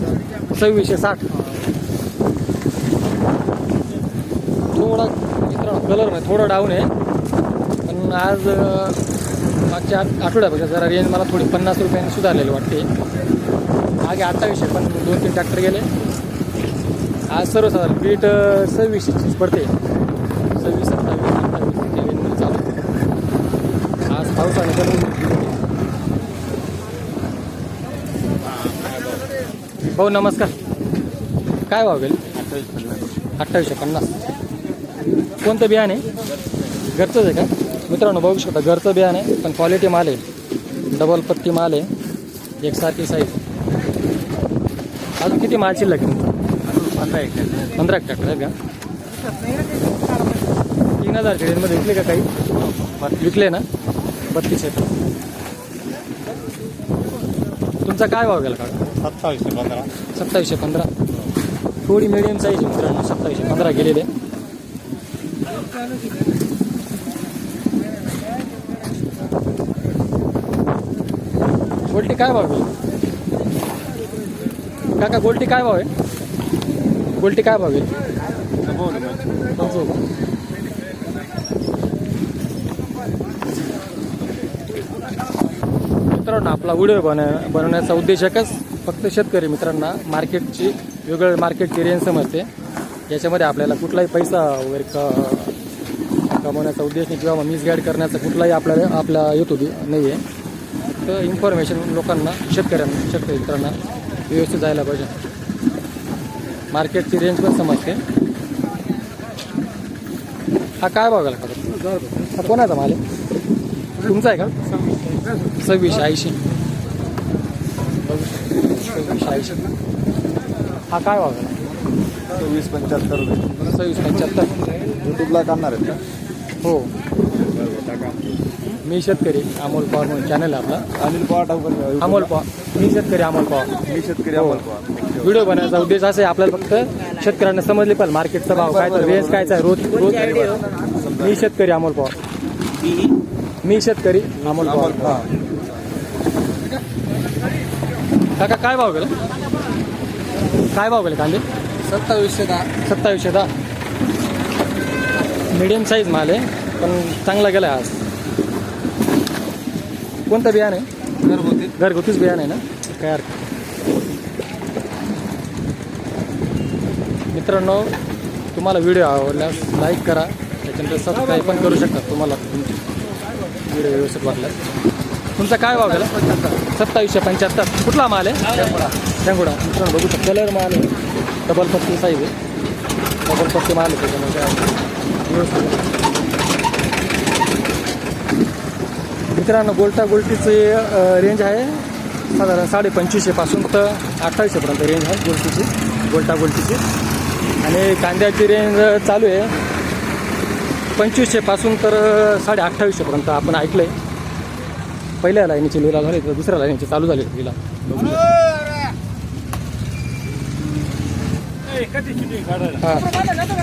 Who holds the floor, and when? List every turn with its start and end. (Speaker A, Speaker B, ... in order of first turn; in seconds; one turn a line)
Speaker A: 0.5-1.3
Speaker A: 4.7-6.9
Speaker A: 7.8-9.0
Speaker A: 9.6-12.9
Speaker A: 14.0-15.9
Speaker A: 17.3-19.7
Speaker A: 20.5-22.7
Speaker A: 24.1-25.6
Speaker A: 29.9-30.5
Speaker A: 31.7-32.2
Speaker B: 32.3-33.0
Speaker A: 33.4-34.2
Speaker A: 35.4-36.0
Speaker A: 36.9-40.2
Speaker A: 40.9-41.9
Speaker A: 42.6-43.4
Speaker A: 45.2-46.3
Speaker B: 46.8-47.5
Speaker A: 47.7-48.5
Speaker A: 51.0-52.3
Speaker A: 53.0-53.7
Speaker A: 54.2-54.9
Speaker A: 57.8-58.8
Speaker B: 59.0-59.9
Speaker A: 60.1-60.9
Speaker A: 61.9-64.1
Speaker A: 71.9-72.7
Speaker A: 75.0-75.9
Speaker A: 77.2-77.9
Speaker B: 78.6-79.5
Speaker A: 79.5-80.0
Speaker A: 86.1-92.5
Speaker A: 93.1-95.6
Speaker A: 96.3-100.2
Speaker A: 101.0-105.1
Speaker A: 106.7-108.0
Speaker A: 110.8-113.0
Speaker A: 114.0-114.5
Speaker A: 115.6-116.4
Speaker A: 118.0-119.6
Speaker A: 120.9-121.5
Speaker B: 122.3-123.6
Speaker A: 123.7-124.5
Speaker B: 125.0-126.0
Speaker A: 126.6-126.9
Speaker A: 128.8-130.9
Speaker B: 130.9-132.3
Speaker A: 132.0-133.8
Speaker B: 133.8-135.1
Speaker A: 134.3-134.7
Speaker A: 135.2-140.6
Speaker B: 138.5-139.7
Speaker B: 140.4-141.4
Speaker A: 141.2-142.2
Speaker A: 143.6-145.3
Speaker B: 144.5-145.4
Speaker A: 148.4-149.2
Speaker A: 150.7-151.4
Speaker B: 151.9-152.6
Speaker A: 152.6-153.5
Speaker A: 155.5-158.0
Speaker A: 160.3-160.9
Speaker A: 161.6-163.4
Speaker A: 167.3-167.9
Speaker A: 168.5-172.8
Speaker A: 173.7-174.6
Speaker A: 175.4-180.9
Speaker A: 181.5-182.3
Speaker A: 183.2-184.7
Speaker A: 185.2-185.8
Speaker A: 189.3-196.8
Speaker A: 197.6-199.5
Speaker A: 200.9-204.0
Speaker A: 205.2-208.2
Speaker A: 212.7-213.2